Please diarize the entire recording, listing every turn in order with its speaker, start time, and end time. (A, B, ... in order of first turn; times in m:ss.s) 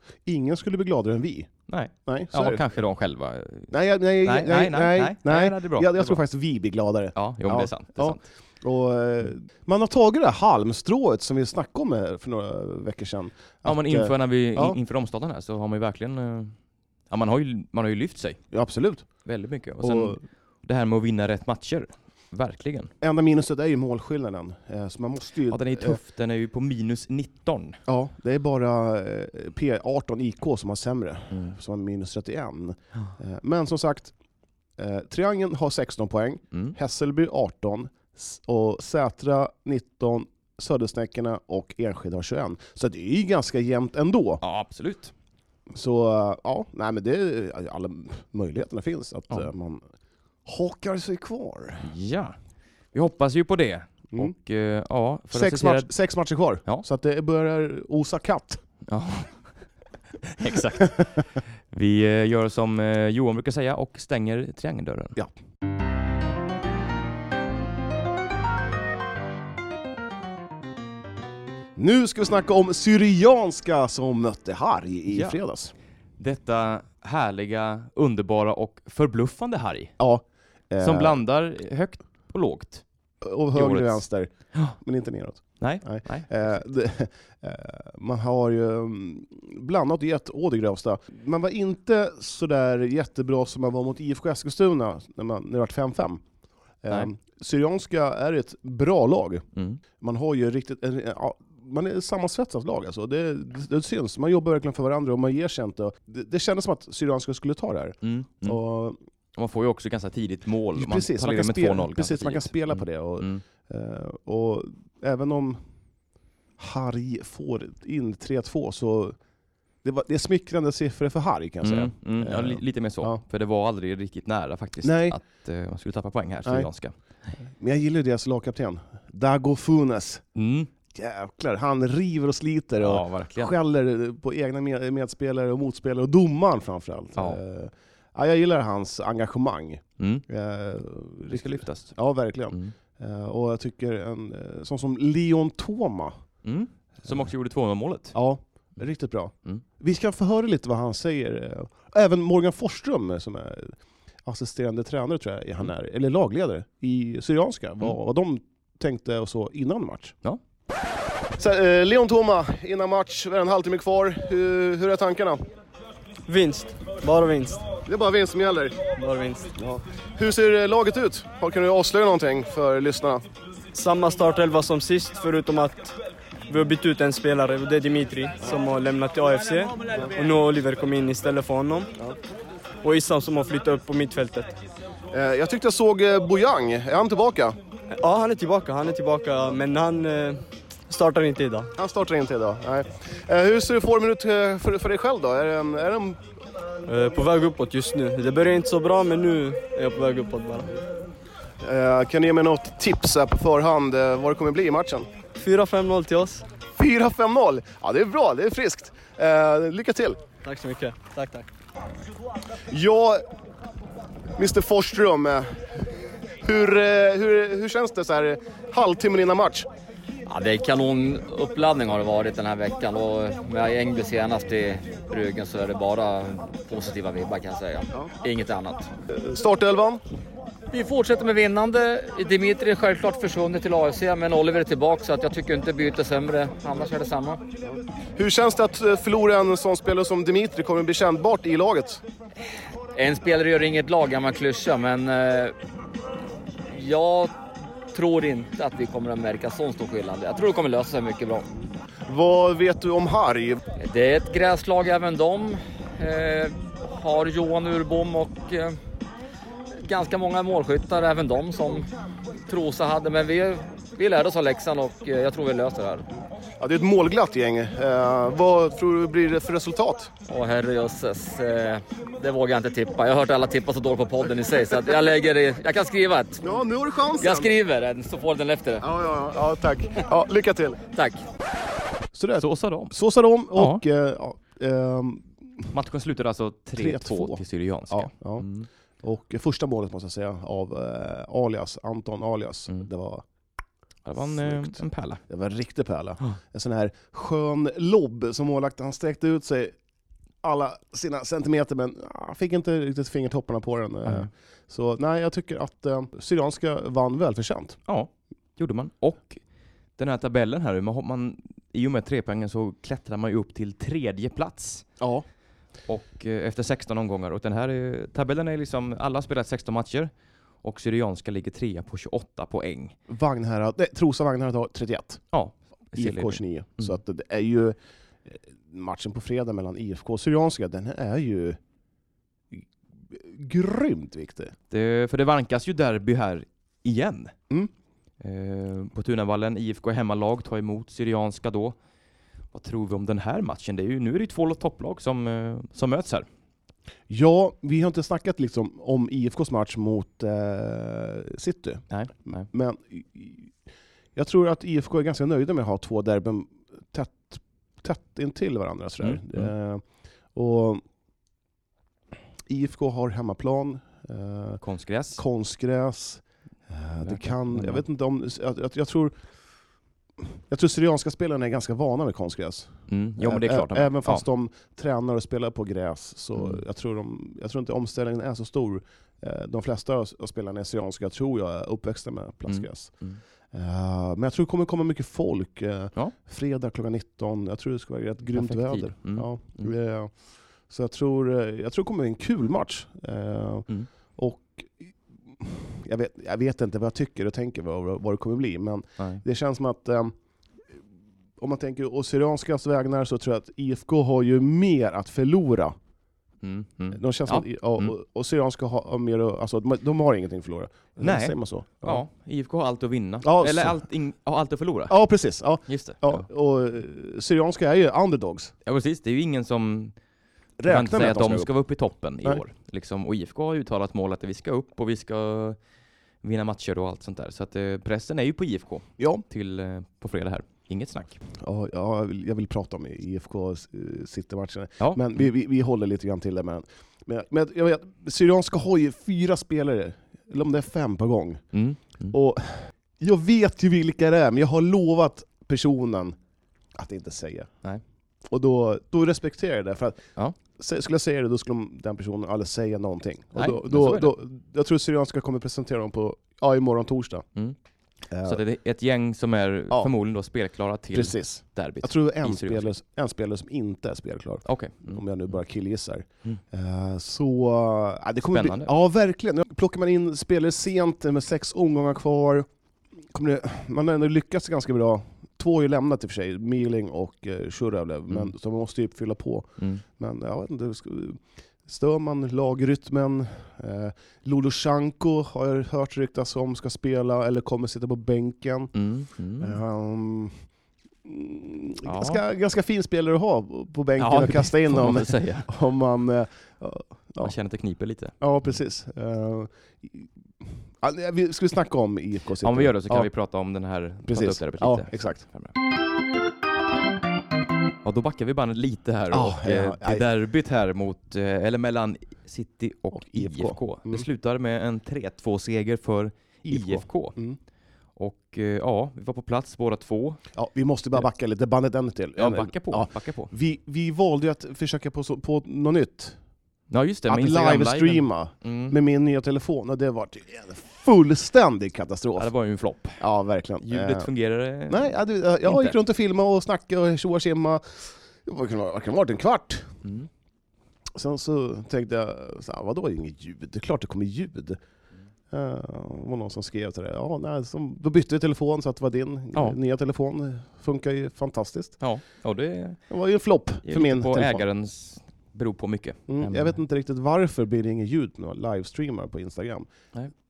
0:00.3-0:01.5 A
0:01.7-0:03.7 B
0:02.1-0:02.7 A
0:03.7-0:14.8 A
0:04.2-0:06.2 B
0:07.2-0:08.2 B
0:13.6-0:16.6 B
0:17.1-0:18.4 B
0:18.5-0:19.1 A
0:19.2-0:22.9 B
0:19.8-0:20.2 A
0:23.0-0:26.0 A
0:25.5-0:27.8 B
0:27.9-0:34.1 A
0:31.3-0:31.6 B
0:34.8-0:44.4 A
0:44.4-0:45.1 B
0:45.7-0:49.9 A
0:50.4-0:51.9 A
0:51.8-0:52.4 B
0:52.9-0:55.9 B
0:55.3-0:58.6 A
0:58.9-0:59.5 B
1:00.3-1:05.2 B
1:11.8-1:15.7 A
1:15.1-1:15.4 B
1:16.2-1:19.9 B
1:20.0-1:21.2 A
1:20.8-1:22.8 B
1:23.2-1:36.2 A
1:23.5-1:24.0 B
1:25.6-1:26.6 B
1:36.8-1:39.4 A
1:39.6-1:39.8 B
1:40.0-1:49.0 A
1:48.0-1:48.6 B
1:49.4-1:53.4 B
1:50.8-1:55.6 A
1:56.6-1:59.2 A
1:59.8-2:03.2 A
2:01.6-2:07.0 B
2:04.8-2:05.2 A
2:07.4-2:10.2 A
2:10.4-2:10.7 B
2:10.9-2:26.2 A
2:12.8-2:13.5 B
2:20.0-2:20.2 B
2:21.3-2:22.0 B
2:26.4-2:28.2 B
2:28.1-2:40.2 A
2:41.4-2:45.5 A
2:46.3-2:47.6 C
2:47.9-2:48.8 A
2:49.0-2:49.5 C
2:49.6-2:53.2 A
2:53.7-2:56.0 C
2:56.5-3:01.9 C
3:02.8-3:04.6 C
3:05.1-3:07.6 A
3:08.0-3:11.7 C
3:11.8-3:16.2 A
3:16.9-3:20.8 C
3:21.6-3:25.1 A
3:25.4-3:26.4 C
3:26.8-3:30.2 A
3:30.4-3:31.5 C
3:32.7-3:33.2 A
3:34.4-3:35.8 A
3:36.4-3:39.7 A
3:40.3-3:48.9 D
3:49.1-3:50.0 A
3:50.7-3:57.4 D
3:57.6-4:02.0 A
4:02.9-4:05.6 D
4:06.7-4:07.4 D
4:07.9-4:11.5 D
4:12.0-4:13.6 A
4:13.8-4:18.8 D
4:19.8-4:21.9 D
4:22.5-4:26.1 D
4:26.6-4:30.1 A
4:30.3-4:36.4 D
4:36.4-4:37.5 A
4:37.2-4:38.8 D
4:38.8-4:40.8 A
4:41.0-4:41.2 D
4:42.1-4:45.7 A
4:42.4-4:43.0 B
4:43.6-4:43.8 B
4:45.7-4:48.7 B
4:46.8-4:48.5 A
4:49.0-4:53.2 A
4:54.0-4:55.2 B
4:54.2-4:59.8 A
5:00.4-5:07.8 A
5:07.9-5:09.4 B
5:10.0-5:14.9 B
5:15.0-5:15.2 A
5:15.9-5:20.1 B
5:20.6-5:23.0 B
5:23.1-5:25.2 A
5:25.3-5:27.0 B
5:26.0-5:31.6 A
5:32.5-5:34.6 A
5:34.7-5:37.4 B
5:38.2-5:41.8 B
5:42.5-5:46.3 B
5:47.1-5:53.5 A
5:51.9-5:52.5 B
5:54.2-5:59.8 A
5:59.0-5:59.5 B
6:00.3-6:00.8 A
6:02.5-6:04.6 A
6:04.6-6:05.2 B
6:05.2-6:09.2 A
6:07.0-6:07.8 B
6:10.2-6:22.9 A
6:12.9-6:14.2 B
6:16.4-6:16.6 B
6:22.5-6:23.2 B
6:23.5-6:30.1 A
6:28.3-6:29.7 B
6:30.7-6:40.2 A
6:41.4-6:45.8 A
6:46.4-6:47.9 B
6:46.9-6:52.0 A
6:51.0-6:55.0 B
6:53.2-6:53.8 A
6:54.9-6:58.5 A
6:55.7-6:56.3 B
6:58.7-6:59.9 B
7:00.6-7:01.5 A
7:00.7-7:05.6 B
7:06.2-7:11.2 B
7:09.0-7:09.2 A
7:11.4-7:21.4 A
7:14.8-7:15.2 B
7:21.5-7:22.2 B
7:22.1-7:26.2 A
7:26.7-7:27.5 A
7:28.3-7:30.0 A
7:30.6-7:37.3 A
7:33.4-7:34.2 B
7:38.1-7:38.4 A
7:38.2-7:42.7 B
7:40.9-7:52.5 A
7:44.4-7:45.0 B
7:48.3-7:48.7 B
7:53.1-8:08.7 A
7:59.6-7:59.8 B
8:08.7-8:09.6 B
8:09.4-8:10.4 A
8:11.0-8:17.4 A
8:11.8-8:12.2 B
8:14.0-8:15.5 B
8:17.2-8:18.2 B
8:18.2-8:23.1 A
8:22.4-8:25.5 B
8:24.1-8:25.2 A
8:27.8-8:37.2 B
8:29.1-8:30.1 A
8:32.9-8:34.1 A
8:36.4-8:37.4 A
8:38.0-8:40.2 B
8:40.3-8:46.2 A
8:42.2-8:43.3 B
8:46.7-8:48.8 B
8:47.1-8:52.3 A
8:52.2-8:53.0 B
8:53.0-8:54.1 A
8:53.6-8:55.8 B
8:54.7-8:59.8 A
8:59.8-9:00.1 B
9:00.9-9:04.6 A
9:05.3-9:11.8 A
9:11.8-9:12.8 B
9:12.9-9:14.4 A
9:13.6-9:16.6 B
9:16.1-9:19.7 A